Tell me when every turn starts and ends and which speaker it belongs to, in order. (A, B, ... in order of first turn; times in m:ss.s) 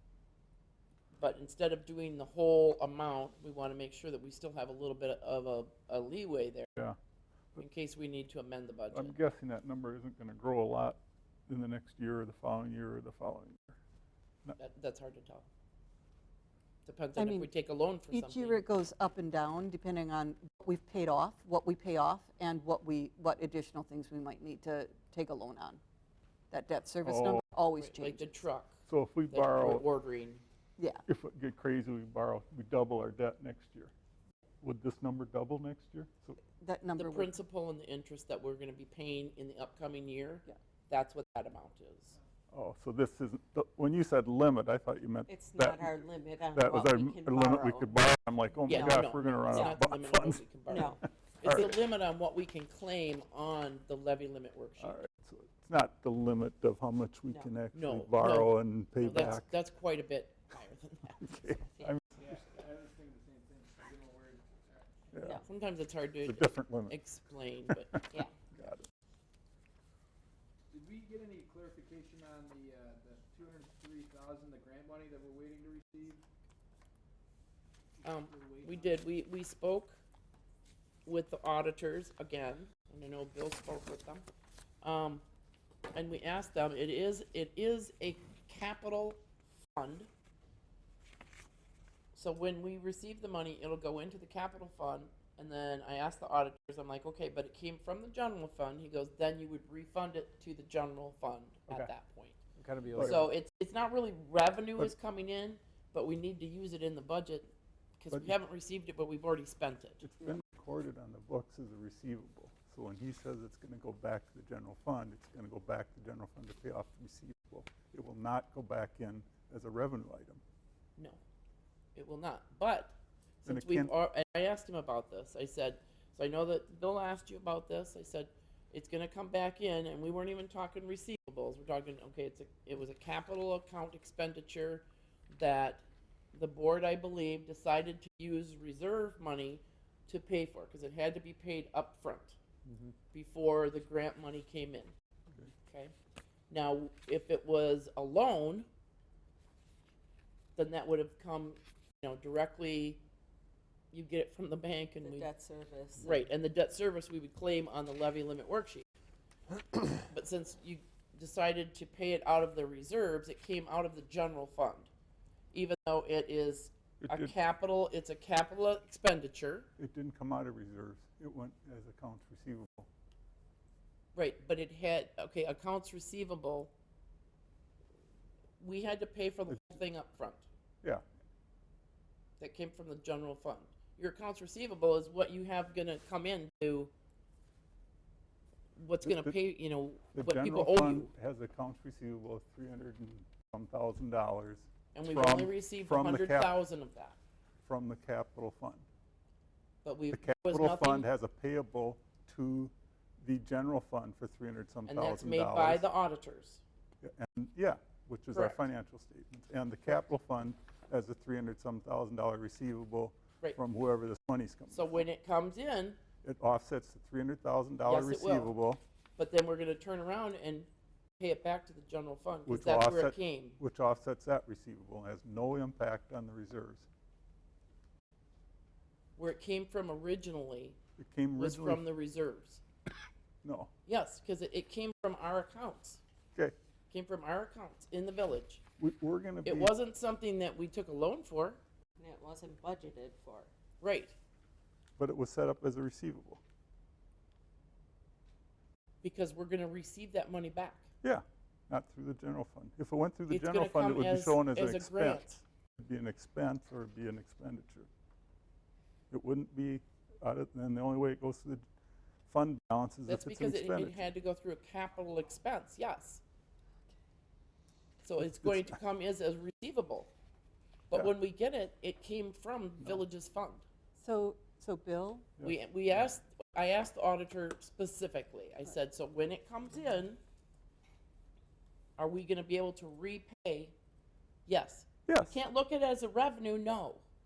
0:01.2-0:06.7 A
0:07.6-0:09.1 A
0:08.9-0:13.8 B
0:14.6-0:15.4 A
0:16.8-0:18.6 A
0:17.2-0:17.5 C
0:18.1-0:25.8 C
0:26.5-0:28.4 C
0:27.0-0:27.4 B
0:27.8-0:30.4 A
0:28.8-0:29.8 B
0:30.8-0:31.0 C
0:31.1-0:33.9 B
0:34.6-0:36.4 B
0:36.6-0:37.4 C
0:37.0-0:42.1 A
0:42.5-0:51.7 B
0:45.3-0:47.9 D
0:48.6-0:49.8 D
0:48.7-0:55.0 A
0:50.7-0:51.0 D
0:54.8-0:59.5 B
0:57.7-1:01.2 A
1:01.2-1:02.3 B
1:01.5-1:01.9 D
1:02.2-1:05.1 E
1:05.1-1:05.4 B
1:05.2-1:05.4 D
1:05.4-1:08.2 A
1:06.2-1:07.0 B
1:07.7-1:08.8 B
1:10.7-1:16.2 E
1:18.0-1:19.0 E
1:18.0-1:20.0 A
1:21.0-1:24.2 A
1:24.8-1:25.2 A
1:25.9-1:29.2 A
1:29.7-1:30.1 A
1:32.1-1:42.4 A
1:42.6-1:43.2 E
1:42.9-1:43.2 B
1:43.0-1:50.0 A
1:50.0-2:00.4 B
2:01.0-2:01.2 A
2:01.9-2:15.8 A
2:03.4-2:03.9 B
2:16.3-2:22.4 A
2:23.1-2:24.9 A
2:25.6-2:25.9 A
2:26.5-2:28.7 A
2:30.6-2:33.0 A
2:33.9-2:35.3 A
2:35.0-2:36.3 D
2:36.0-2:38.8 A
2:40.0-2:44.9 A
2:45.5-2:49.7 A
2:47.0-2:47.3 B
2:49.8-2:52.9 B
2:54.1-2:56.7 A
2:58.6-3:00.4 A
3:02.4-3:06.9 A
3:08.8-3:11.1 A
3:09.0-3:09.3 B
3:10.1-3:16.6 B
3:14.9-3:17.2 A
3:17.6-3:18.8 B
3:19.8-3:21.1 A
3:20.1-3:25.9 B
3:24.9-3:26.6 A
3:27.0-3:34.9 B
3:28.3-3:28.6 A
3:34.7-3:36.0 A
3:36.2-3:38.8 B
3:37.8-3:38.6 A
3:39.2-3:40.7 A
3:41.2-3:43.6 A
3:42.4-3:46.9 B
3:49.2-3:50.8 A
3:51.0-3:51.8 B
3:51.4-3:52.6 A
3:53.4-3:53.7 B
3:53.8-3:56.0 A
3:56.9-3:58.6 A
3:58.8-3:59.7 B
3:59.4-4:01.6 A
4:02.0-4:03.5 D
4:03.8-4:04.1 A
4:05.0-4:06.4 B
4:09.0-4:10.9 A
4:11.0-4:15.3 B
4:13.3-4:15.4 A
4:15.8-4:17.9 B
4:19.1-4:21.6 B
4:22.2-4:24.1 B
4:23.1-4:26.2 A
4:28.0-4:30.1 A
4:30.9-4:33.6 A
4:34.0-4:35.3 C
4:35.4-4:40.2 A
4:42.0-4:43.7 A
4:44.4-4:47.0 A
4:45.1-4:45.4 B